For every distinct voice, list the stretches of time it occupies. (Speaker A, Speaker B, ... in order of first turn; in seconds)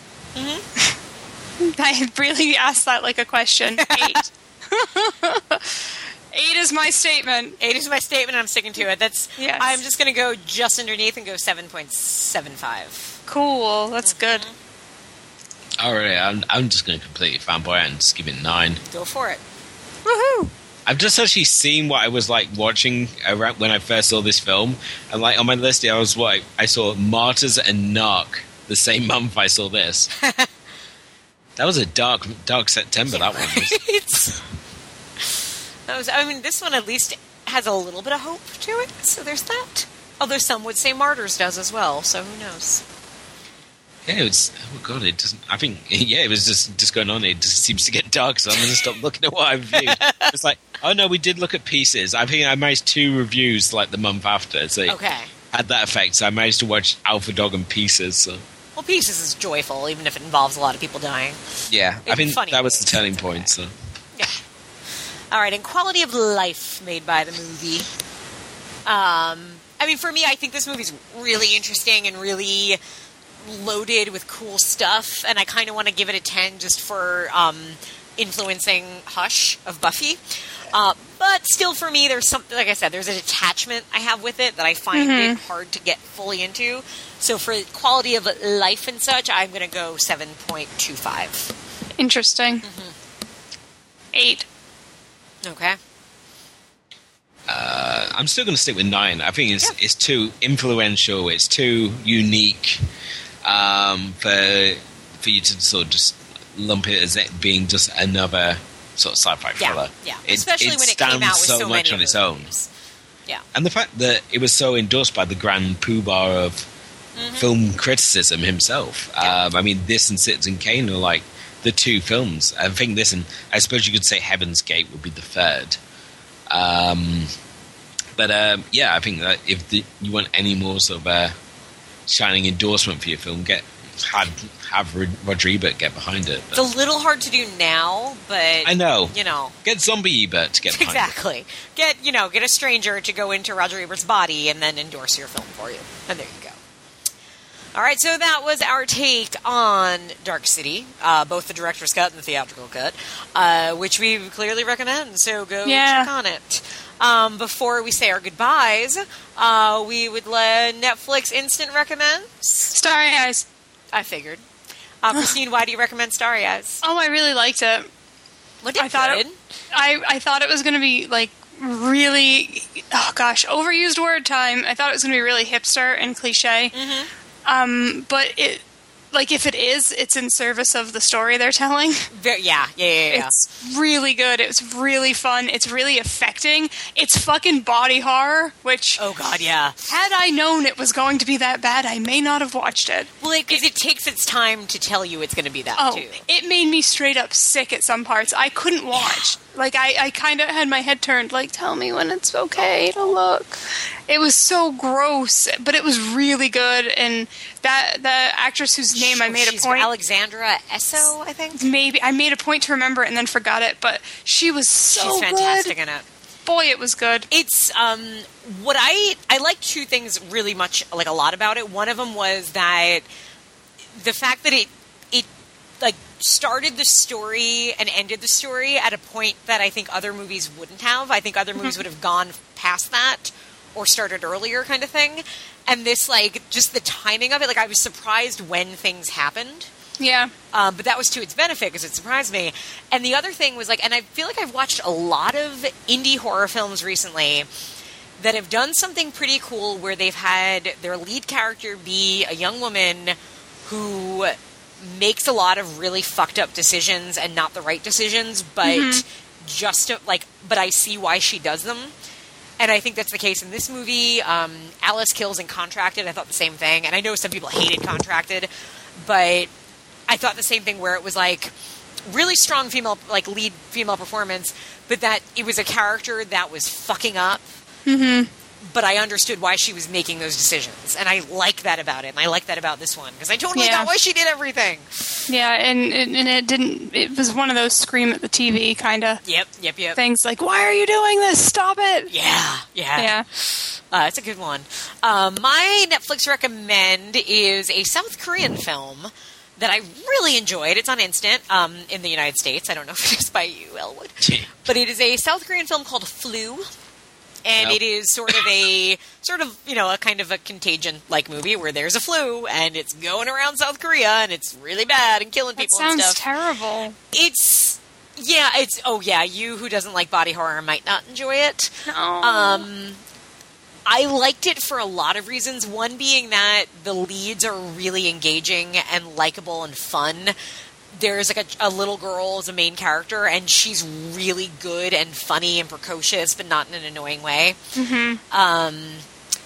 Speaker A: 0.3-0.7, 3.8-4.2, 7.6-13.2, 14.0-14.5, 18.9-19.4, 20.0-20.5, 30.1-30.5, 33.1-34.4, 35.9-42.8, 49.7-50.3, 54.9-55.3, 58.8-61.4, 62.0-63.5, 65.3-67.9, 68.8-72.8, 73.4-91.5, 92.6-92.9, 95.4-95.8, 109.6-112.7, 117.2-117.5, 136.5-139.5, 140.7-146.6, 147.7-162.7, 163.9-164.4, 165.0-166.8, 168.6-169.3, 176.7-177.1, 182.1-183.3, 189.0-189.8, 193.2-196.2, 198.9-199.2, 202.6-203.1, 208.9-211.6, 214.9-216.1, 217.3-223.1, 223.9-225.3, 225.8-239.7, 240.5-247.5, 248.2-261.9, 262.6-269.5, 270.1-271.5, 272.1-277.4, 278.6-285.2, 289.2-290.0, 292.1-306.7, 307.4-316.2, 317.1-323.0, 323.9-330.3, 330.9-337.6, 338.3-339.0
Speaker B: 1.6-7.6, 9.4-9.8, 13.3-14.4, 84.9-85.4, 92.0-92.6, 94.1-94.5, 155.7-156.1, 162.7-163.4, 166.8-167.9, 168.8-176.7, 177.4-182.1, 183.1-189.0, 189.8-193.6, 195.8-209.9, 211.6-215.7, 216.4-217.3, 240.0-240.3, 258.6-259.0, 277.9-278.3, 283.5-283.9, 285.3-289.2, 289.9-292.1, 293.0-293.2, 315.6-316.9, 321.9-322.6, 337.8-338.2
Speaker C: 15.8-18.8, 20.9-30.1, 31.6-33.8, 44.0-55.0, 55.5-58.4, 61.7-63.7, 97.5-102.8, 103.4-112.5, 113.5-116.7, 117.4-125.8, 126.5-127.3, 128.2-131.3, 132.1-136.6, 138.6-141.1, 304.2-304.5, 307.6-308.3